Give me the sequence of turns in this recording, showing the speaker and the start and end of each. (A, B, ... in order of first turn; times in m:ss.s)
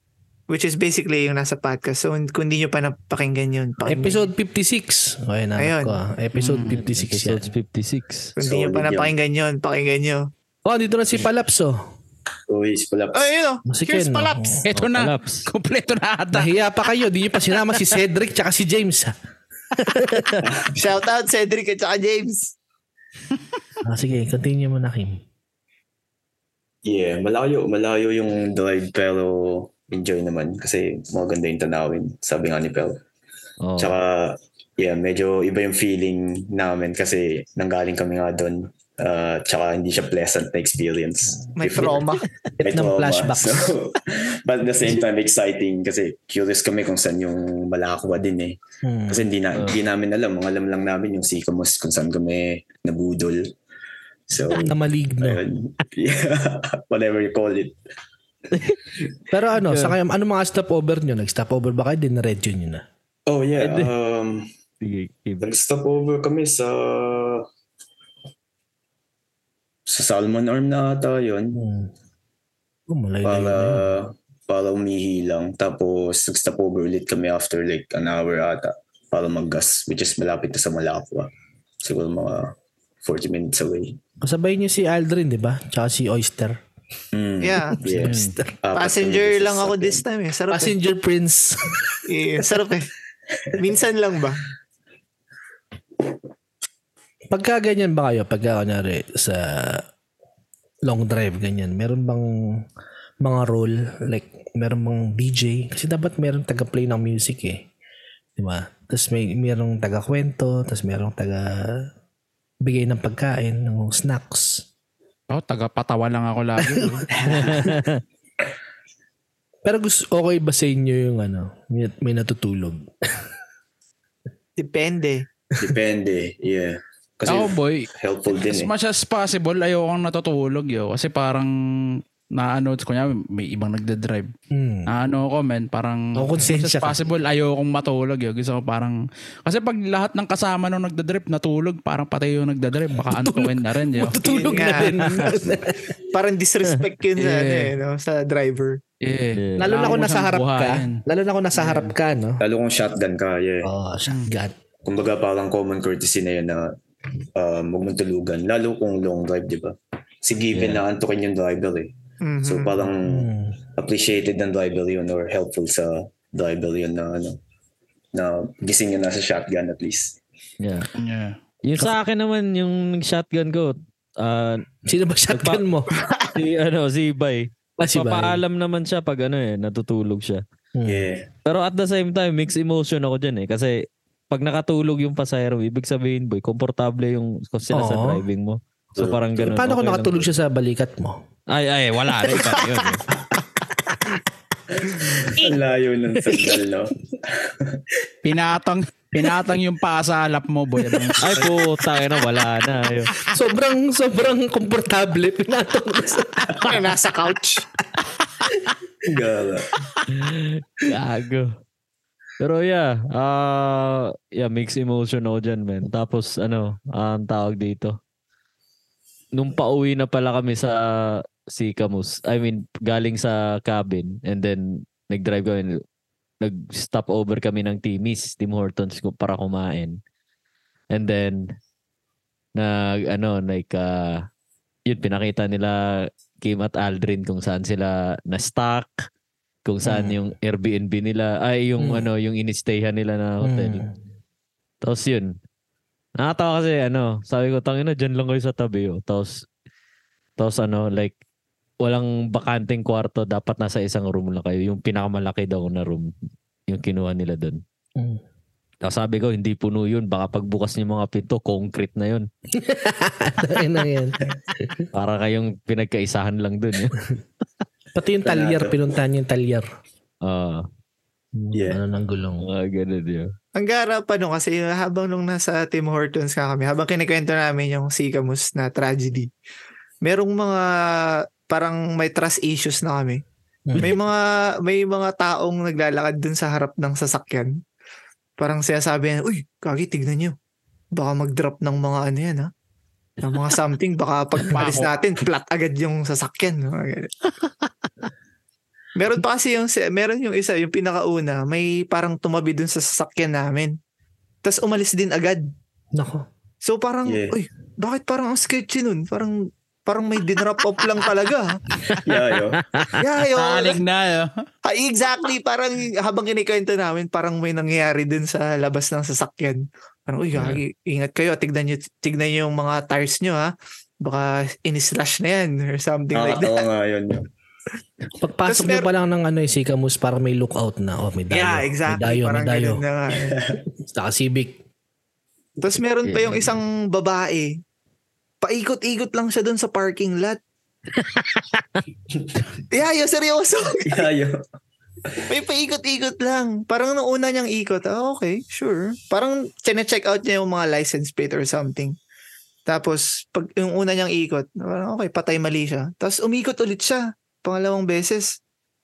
0:00.5-0:04.2 A
0:03.9-0:07.5 B
0:05.6-0:06.0 A
0:06.4-0:06.8 C
0:06.7-0:08.3 D
0:08.4-0:10.3 A
0:08.4-0:09.1 E
0:10.7-0:11.8 B
0:12.5-0:13.3 E
0:13.1-0:14.6 A
0:13.7-0:14.6 B
0:14.6-0:16.5 C
0:14.7-0:15.5 D
0:16.3-0:19.2 B
0:19.8-0:20.4 B
0:20.4-0:20.8 E
0:20.8-0:22.5 A
0:23.8-0:25.2 B
0:26.8-0:33.0 E
0:33.6-0:34.0 D
0:33.8-0:42.1 E
0:41.4-0:41.9 B
0:41.6-0:42.2 A
0:42.6-0:43.7 B
0:42.6-0:48.6 E
0:48.8-0:49.3 B
0:49.1-0:53.5 E
0:54.3-0:57.8 E
0:54.5-0:55.4 B
0:59.3-1:02.8 B
1:03.3-1:04.5 E
1:03.6-1:03.9 D
1:04.8-1:05.5 D
1:05.4-1:07.5 E
1:09.9-1:11.6 E
1:11.5-1:11.9 B
1:12.9-1:13.9 B
1:13.2-1:21.3 E
1:21.8-1:24.0 E
1:24.2-1:26.6 B
1:27.1-1:30.0 E
1:27.4-1:27.8 A
1:27.8-1:28.5 B
1:28.0-1:28.4 D
1:28.8-1:30.7 A
1:30.5-1:32.0 B
1:32.1-1:32.9 A
1:33.6-1:34.4 A
1:37.3-1:39.8 B
1:40.9-1:42.7 B
1:43.2-1:47.7 B
1:48.4-1:51.9 B
1:52.6-1:54.7 B
1:55.3-1:57.4 C
1:56.6-1:57.6 B
1:57.3-1:58.0 D
1:59.6-2:03.3 B
2:04.6-2:05.3 A
2:05.6-2:08.7 E
2:07.3-2:07.9 C
2:08.4-2:14.3 C
2:14.5-2:14.9 B
2:14.9-2:24.2 C
2:16.2-2:17.0 B
2:23.0-2:25.9 B
2:24.2-2:25.4 A
2:26.1-2:28.8 A
2:27.2-2:27.8 C
2:29.0-2:31.0 C
2:29.3-2:29.8 D
2:29.6-2:32.4 B
2:31.6-2:31.9 C
2:32.4-2:33.7 E
2:33.6-2:34.6 B
2:34.8-2:36.7 E
2:37.4-2:41.9 E
2:40.5-2:40.8 D
2:42.2-2:42.8 A
2:42.4-2:47.4 E
2:43.0-2:43.6 B
2:48.2-2:50.2 E
2:50.6-2:50.9 D
2:51.0-2:51.4 C
2:51.6-2:54.6 D
2:54.9-2:55.9 B
2:55.3-2:55.6 D
2:56.3-3:00.4 D
2:57.8-2:58.4 B
3:00.8-3:01.1 B
3:00.9-3:01.3 E
3:01.4-3:10.3 D
3:07.7-3:08.2 B
3:09.0-3:09.5 E
3:09.4-3:11.2 B
3:11.5-3:13.0 D
3:14.8-3:17.8 E
3:16.3-3:16.5 B
3:18.2-3:21.5 C
3:21.2-3:23.1 D
3:23.3-3:26.9 B
3:26.6-3:27.6 A
3:29.0-3:29.8 E
3:30.1-3:31.6 D
3:32.4-3:38.0 D
3:39.4-3:45.8 D
3:46.4-3:50.0 D
3:50.9-3:51.5 D
3:52.6-3:54.3 D
3:54.9-3:59.1 D
3:59.6-4:03.9 D
3:59.9-4:00.2 B
4:01.8-4:02.1 B
4:03.4-4:03.9 B
4:04.8-4:05.4 D
4:06.2-4:09.5 D
4:10.4-4:11.2 D
4:11.8-4:16.1 D
4:16.7-4:17.6 D
4:18.0-4:18.2 B
4:18.8-4:22.3 D
4:22.5-4:24.8 B
4:24.9-4:27.0 D
4:28.0-4:29.7 B
4:28.2-4:28.8 E
4:30.2-4:30.7 D
4:31.4-4:32.5 B
4:31.5-4:31.8 E
4:32.4-4:33.3 D
4:33.6-4:39.3 A
4:40.0-4:43.2 A
4:43.7-4:44.0 B
4:43.8-4:47.6 A
4:48.4-4:50.4 A
4:50.9-4:52.5 A
4:53.2-4:57.1 A
4:54.5-4:54.9 C
4:59.0-5:03.8 A
5:04.4-5:05.5 A
5:05.9-5:06.3 B
5:06.6-5:11.6 A
5:07.1-5:07.4 E
5:12.0-5:12.7 E
5:12.7-5:13.0 D
5:13.0-5:13.8 A
5:13.3-5:14.4 C
5:14.6-5:26.7 A
5:20.3-5:20.6 D
5:26.1-5:27.3 E
5:28.2-5:32.8 B
5:28.5-5:28.9 A
5:31.3-5:33.4 A
5:33.3-5:33.6 E
5:33.8-5:34.6 B
5:35.6-5:37.6 A
5:36.0-5:36.6 D
5:38.4-5:40.4 A
5:41.0-5:41.8 D
5:42.7-5:44.1 A
5:43.9-5:44.4 E
5:45.3-5:52.0 A
5:52.7-5:58.4 A